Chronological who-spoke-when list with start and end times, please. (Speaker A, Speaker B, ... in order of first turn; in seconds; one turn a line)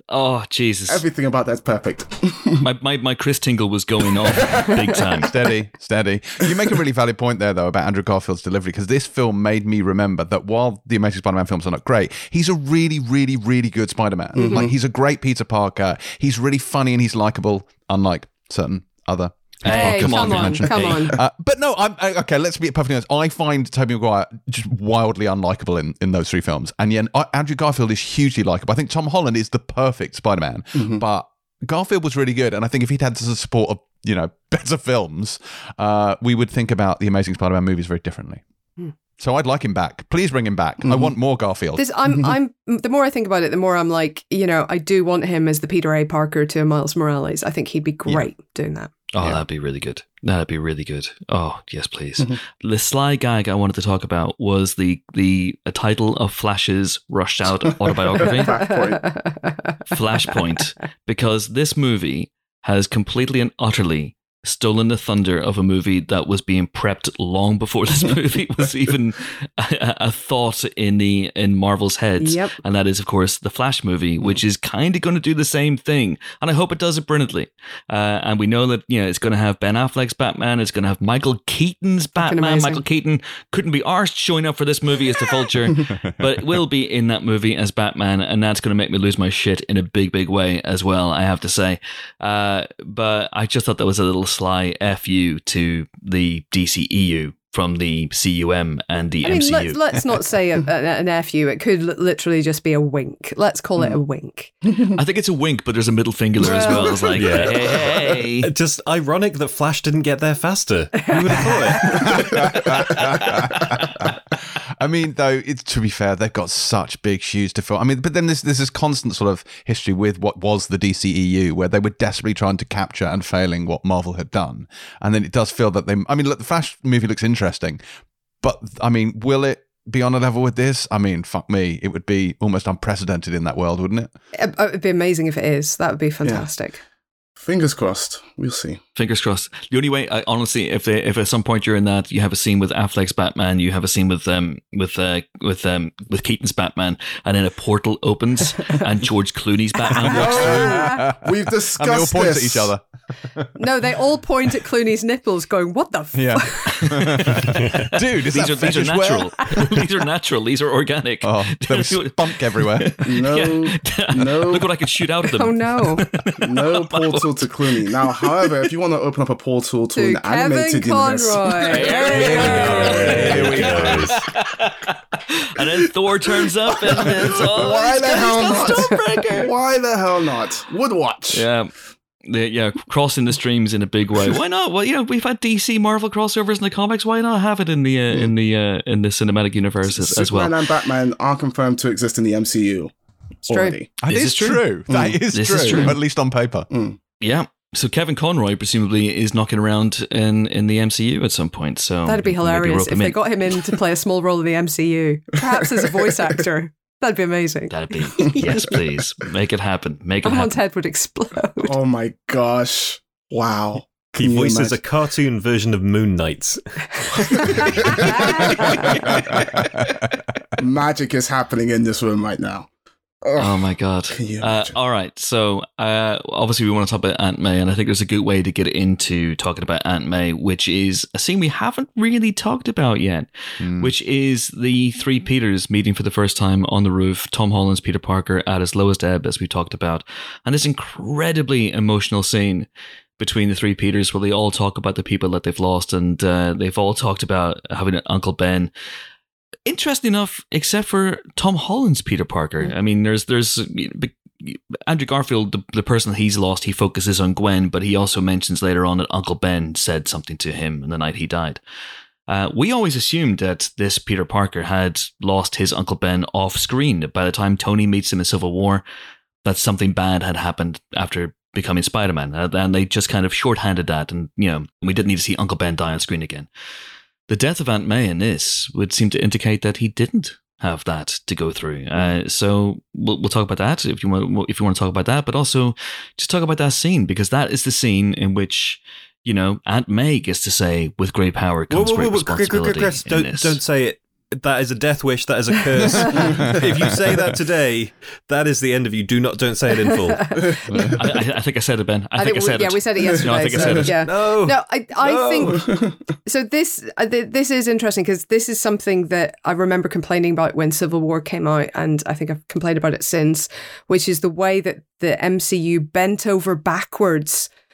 Speaker A: 0.1-1.0
Speaker B: 0.9-2.6
Speaker A: 2.6-5.4
Speaker B: 4.2-5.0
Speaker C: 5.2-38.4
Speaker B: 14.3-14.7
Speaker A: 19.6-21.1
Speaker D: 19.6-21.2
Speaker B: 30.7-31.0
Speaker C: 39.2-41.8
Speaker B: 40.8-41.1
Speaker D: 41.8-48.9
Speaker A: 49.1-58.7
Speaker B: 57.9-59.2
Speaker A: 59.9-99.8
Speaker D: 72.2-72.6
Speaker D: 82.2-82.8
Speaker D: 99.2-104.5
Speaker B: 104.6-105.0
Speaker A: 104.9-108.5
Speaker D: 106.4-107.0
Speaker B: 106.4-107.5
Speaker E: 107.1-112.6
Speaker D: 110.9-112.2
Speaker C: 112.0-114.0
Speaker C: 114.8-127.8
Speaker C: 128.4-134.1
Speaker D: 134.3-136.8
Speaker B: 137.4-138.8
Speaker A: 138.9-150.7
Speaker D: 149.9-151.0
Speaker C: 149.9-153.6
Speaker B: 150.0-152.7
Speaker D: 153.6-157.6
Speaker C: 156.1-159.8
Speaker A: 158.1-168.6
Speaker C: 161.2-163.0
Speaker B: 163.0-164.7
Speaker D: 165.3-166.1
Speaker B: 166.4-173.5
Speaker D: 169.9-173.4
Speaker A: 171.6-179.5
Speaker C: 172.1-174.2
Speaker E: 172.7-174.2
Speaker B: 176.2-181.4
Speaker A: 181.3-181.7
Speaker A: 182.2-190.7
Speaker B: 189.9-192.9
Speaker B: 193.4-193.9
Speaker D: 193.5-193.8
Speaker C: 194.0-196.7
Speaker A: 194.1-194.6
Speaker B: 194.9-195.9
Speaker A: 195.3-195.9
Speaker B: 196.7-197.0
Speaker A: 197.2-203.2
Speaker D: 202.0-208.8
Speaker A: 207.7-210.6
Speaker D: 210.2-211.7
Speaker B: 211.6-214.8
Speaker E: 214.1-218.6
Speaker D: 217.4-218.9
Speaker B: 217.5-219.7
Speaker C: 219.1-219.8
Speaker B: 220.6-222.7
Speaker B: 223.2-224.7
Speaker A: 223.4-242.7
Speaker C: 233.6-233.9
Speaker A: 243.2-248.7
Speaker A: 249.7-261.6
Speaker A: 262.3-268.8
Speaker A: 269.4-276.5
Speaker A: 277.3-293.6
Speaker E: 291.7-300.4
Speaker D: 299.9-300.4
Speaker B: 300.5-301.2
Speaker C: 300.7-301.0
Speaker A: 300.9-304.0
Speaker D: 302.1-305.6
Speaker B: 303.5-303.9
Speaker E: 303.9-305.6
Speaker B: 305.5-306.0
Speaker D: 306.2-317.5